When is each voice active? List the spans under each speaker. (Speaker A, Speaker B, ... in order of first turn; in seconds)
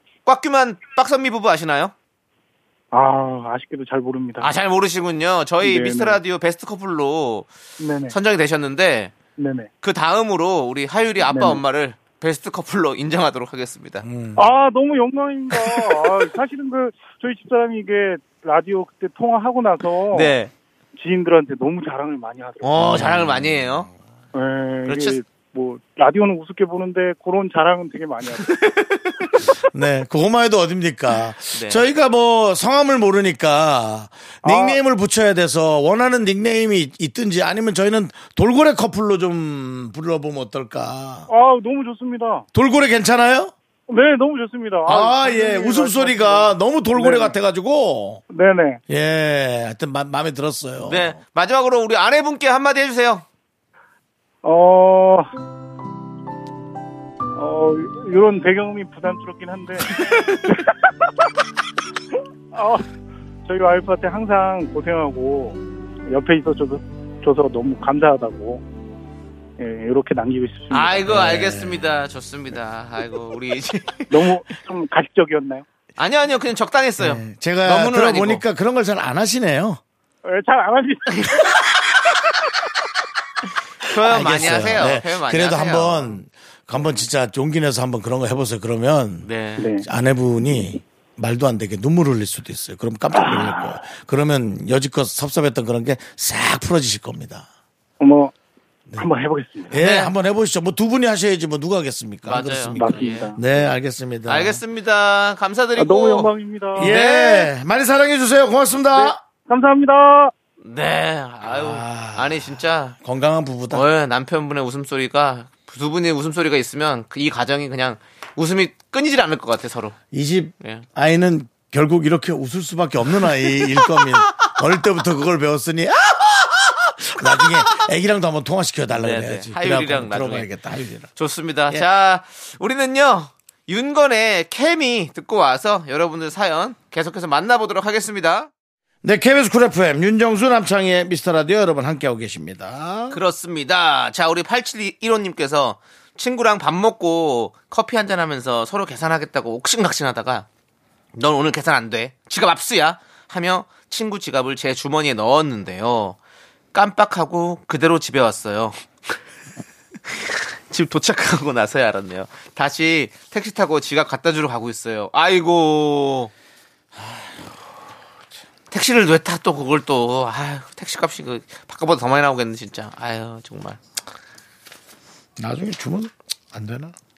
Speaker A: 0.2-1.9, 4.4-7.5, 8.1-9.1, 9.8-14.0, 20.1-20.5, 22.6-23.9, 24.9-25.2, 28.5-29.1, 31.5-31.9, 50.8-53.2, 70.7-74.1, 76.0-78.4, 83.8-86.2, 89.2-89.7, 99.7-100.1, 102.2-103.4, 104.3-107.5, 110.6-112.9, 113.7-120.0, 128.9-130.5, 131.2-138.5, 143.1-150.4, 151.1-156.2, 156.7-158.8, 160.1-166.3, 168.7-173.8
Speaker B: 2.9-4.5, 5.6-6.2, 7.8-8.2, 9.4-9.7, 11.2-11.6, 14.3-20.3, 20.9-23.1, 24.3-28.5, 34.4-34.8, 41.3-42.5, 43.9-47.3, 48.3-48.8, 54.4-55.3, 57.3-60.8, 62.5-62.9, 63.5-68.6, 69.6-71.1, 74.1-75.6, 80.2-81.1, 89.6-89.8, 98.0-98.3, 99.0-99.7, 102.7-103.4, 105.8-106.9, 108.9-110.3
Speaker C: 14.0-14.5, 22.8-23.9, 29.7-41.3, 42.5-43.5, 44.9-48.2, 48.9-51.2, 71.1-71.8, 77.0-79.8, 84.0-89.3, 89.8-97.5, 99.7-104.6, 106.8-109.2, 111.4-113.8, 120.1-131.1, 139.0-143.2, 167.0-167.3, 175.4-176.9